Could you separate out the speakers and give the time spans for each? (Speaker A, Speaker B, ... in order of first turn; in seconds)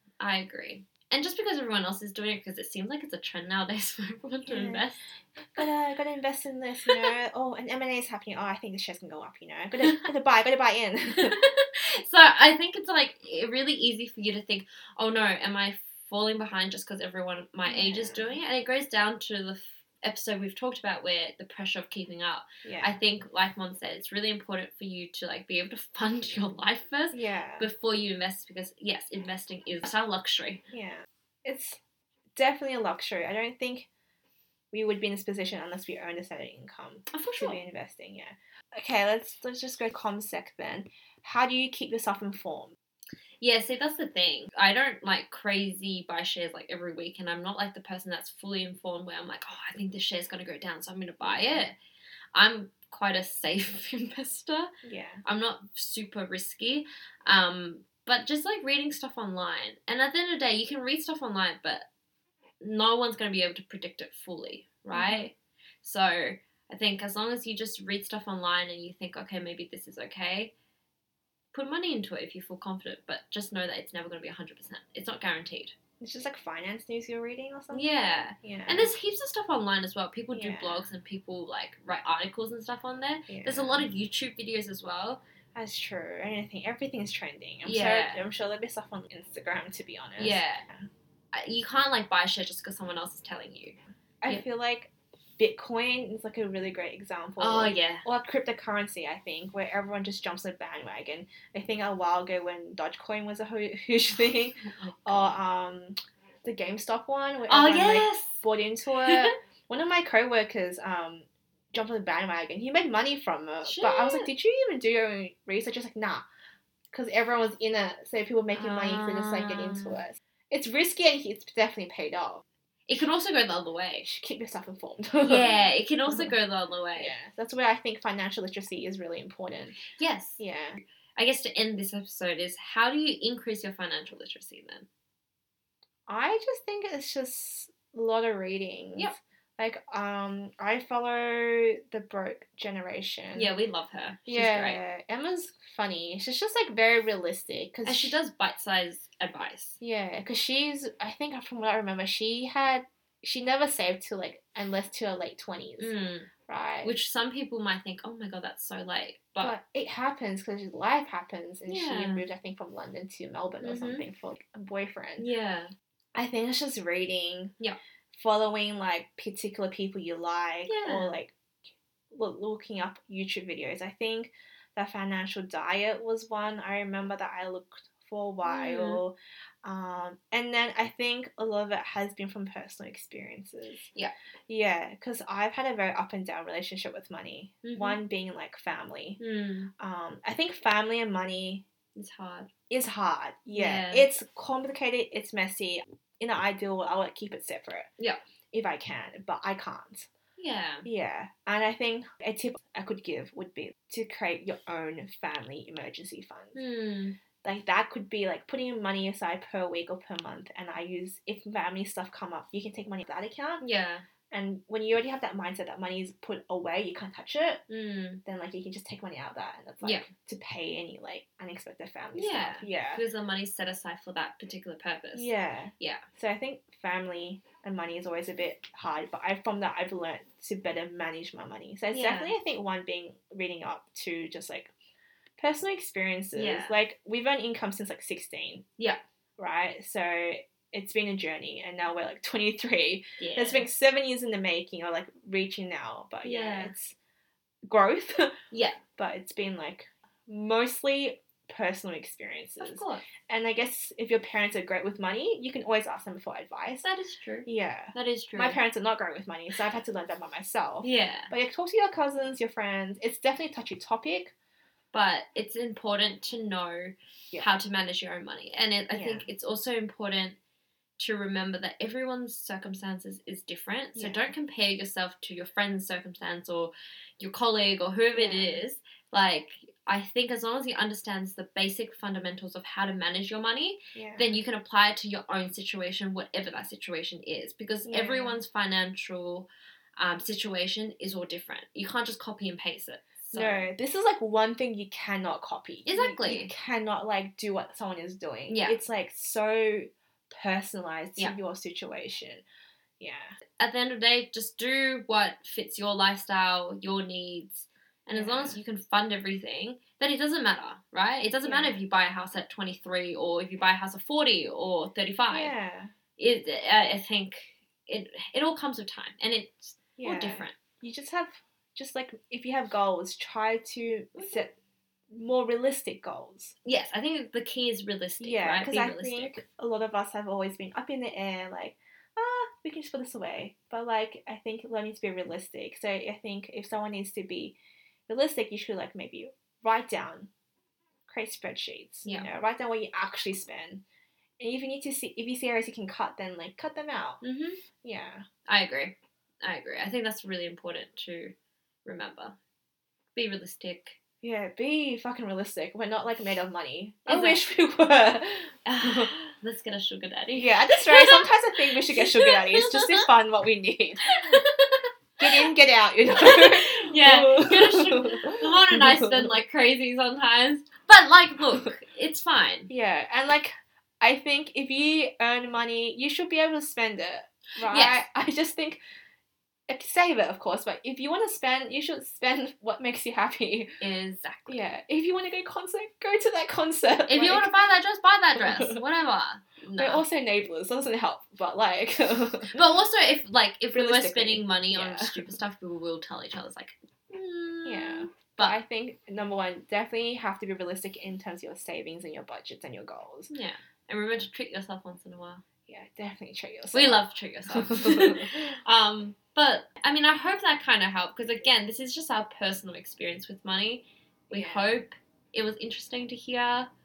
Speaker A: 0.2-5.1, 11.1-30.6, 37.1-37.6, 43.4-51.7, 52.3-54.7, 55.2-61.9, 62.6-70.5, 71.5-75.8, 77.7-85.2, 87.6-88.2, 90.2-90.6, 91.3-94.4, 97.4-98.0, 104.6-105.3, 107.5-108.4, 109.0-109.3, 113.6-114.3, 118.5-120.0, 122.9-124.1, 125.2-127.1, 129.9-130.4, 131.2-134.9, 143.3-144.8, 147.8-149.8, 155.8-156.3, 156.8-159.5, 161.7-162.2, 163.6-164.0, 165.2-165.7, 170.7-171.2, 178.4-179.0, 187.6-188.0, 189.2-189.7, 191.9-192.5, 193.5-194.1, 200.4-200.9, 206.5-207.2, 213.6-214.1, 217.7-218.2, 219.8-220.1, 222.1-226.0, 231.9-232.3, 236.3-236.8, 243.2-243.7, 246.2-246.7, 248.5-248.8, 252.6-253.0, 256.8-258.6, 260.8-261.3, 264.9-270.4, 271.0-293.7, 295.9-296.5, 298.5-298.8, 303.6-315.5, 316.2-320.6, 326.6-329.4, 347.2-347.6, 348.5-351.3, 351.8-352.4, 353.1-353.9, 357.1-357.4, 358.6-363.1, 364.1-365.4, 366.2-372.7, 377.7-378.0, 383.8-384.6, 387.1-390.0, 392.5-398.6, 403.3-405.4, 406.7-416.7
Speaker B: 4.5-4.8, 5.5-11.4, 17.7-18.3, 22.6-22.9, 27.1-27.7, 30.7-31.8, 32.3-33.9, 34.7-42.8, 51.2-51.6, 54.8-55.2, 64.9-65.3, 76.0-78.9, 80.3-80.9, 83.3-83.9, 85.5-90.9, 94.2-116.2, 116.9-122.4, 124.0-125.5, 127.0-129.8, 130.4-130.8, 136.1-143.5, 144.3-148.2, 149.8-155.9, 156.5-156.9, 159.4-165.3, 166.1-167.5, 168.1-171.3, 172.1-183.8, 184.5-189.2, 189.8-191.6, 192.7-197.9, 198.5-200.1, 200.8-206.6, 207.4-213.6, 214.3-217.6, 218.2-223.0, 225.1-234.7, 235.4-238.6, 239.4-246.9, 247.6-248.4, 249.0-256.8, 257.4-264.3, 268.9-269.2, 273.9-274.3, 278.1-278.6, 283.9-284.3, 287.9-288.4, 293.3-302.4, 303.0-303.3, 308.1-308.6, 311.4-311.7, 315.3-315.9, 320.0-324.5, 325.1-326.5, 328.2-337.6, 338.1-340.3, 341.1-343.8, 344.4-347.2, 347.8-348.2, 354.2-359.3, 360.3-364.4, 365.2-369.3, 372.7-378.8, 379.7-383.8, 384.5-387.5, 388.4-388.8, 389.8-392.5, 393.7-395.2, 397.6-403.3, 405.7-408.4, 414.3-414.7